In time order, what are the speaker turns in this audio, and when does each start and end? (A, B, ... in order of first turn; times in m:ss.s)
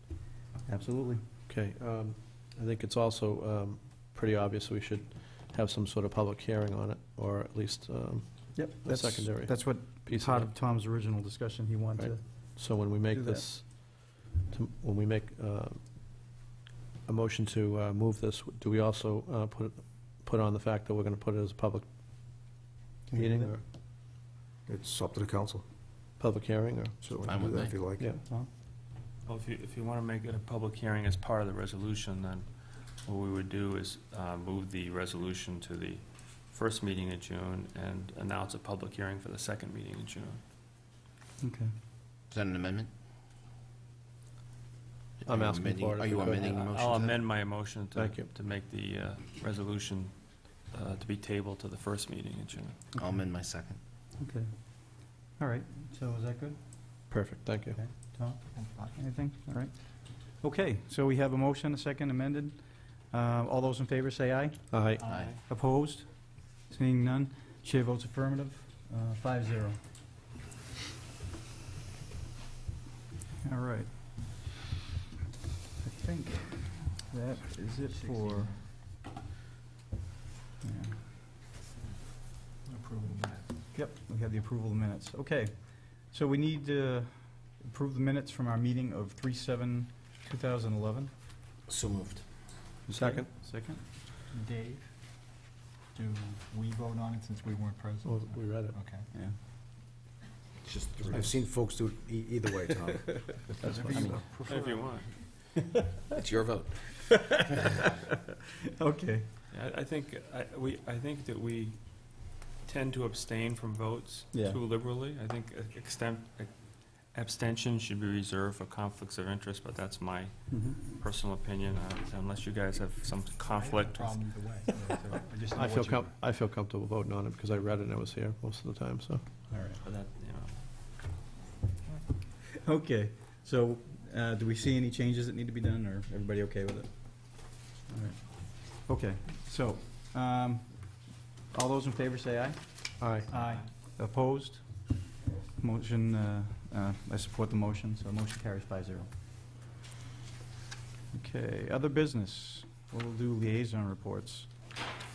0:00.6-0:01.2 A
0:01.5-0:10.5 B
0:08.5-0:12.5 A
0:12.0-0:15.9 B
0:13.1-0:13.4 A
0:17.0-0:21.8 B
0:23.1-0:23.5 A
0:23.1-0:23.6 B
0:24.7-0:25.6 C
0:26.2-0:27.4 B
0:27.0-0:28.2 C
0:27.3-0:27.7 D
0:29.2-0:32.5 E
0:33.0-0:40.4 E
0:41.4-0:41.7 A
0:42.3-0:42.9 D
0:45.2-0:46.6 B
0:45.3-0:47.2 D
0:46.4-0:52.9 E
0:47.9-0:48.3 B
0:53.0-0:53.8 D
0:54.2-0:57.0 A
0:57.1-0:57.8 B
0:57.7-1:04.8 A
0:58.5-0:59.0 F
1:04.7-1:05.0 B
1:05.0-1:05.4 D
1:05.1-1:05.4 E
1:05.4-1:09.8 A
1:13.4-1:14.4 A
1:15.8-1:18.6 A
1:20.6-1:21.2 A
1:22.6-1:23.5 F
1:23.7-1:31.1 A
1:31.7-1:32.2 D
1:32.9-1:33.9 A
1:32.9-1:33.3 B
1:34.3-1:35.3 F
1:35.9-1:39.1 F
1:38.0-1:39.0 B
1:39.1-1:39.4 A
1:40.7-1:41.2 D
1:41.0-1:44.0 C
1:43.6-1:44.3 A
1:44.1-1:45.4 E
1:45.6-1:46.2 A
1:46.2-1:46.7 D
1:46.9-1:47.9 A
1:48.7-1:49.4 A
1:49.5-2:04.4 E
1:54.3-1:54.6 A
2:00.5-2:00.9 A
2:03.5-2:06.1 F
2:05.1-2:05.8 A
2:05.5-2:09.3 B
2:09.5-2:09.8 A
2:09.8-2:10.7 E
2:12.6-2:25.0 A
2:23.0-2:23.3 B
2:25.6-2:29.1 A
2:31.1-2:34.5 A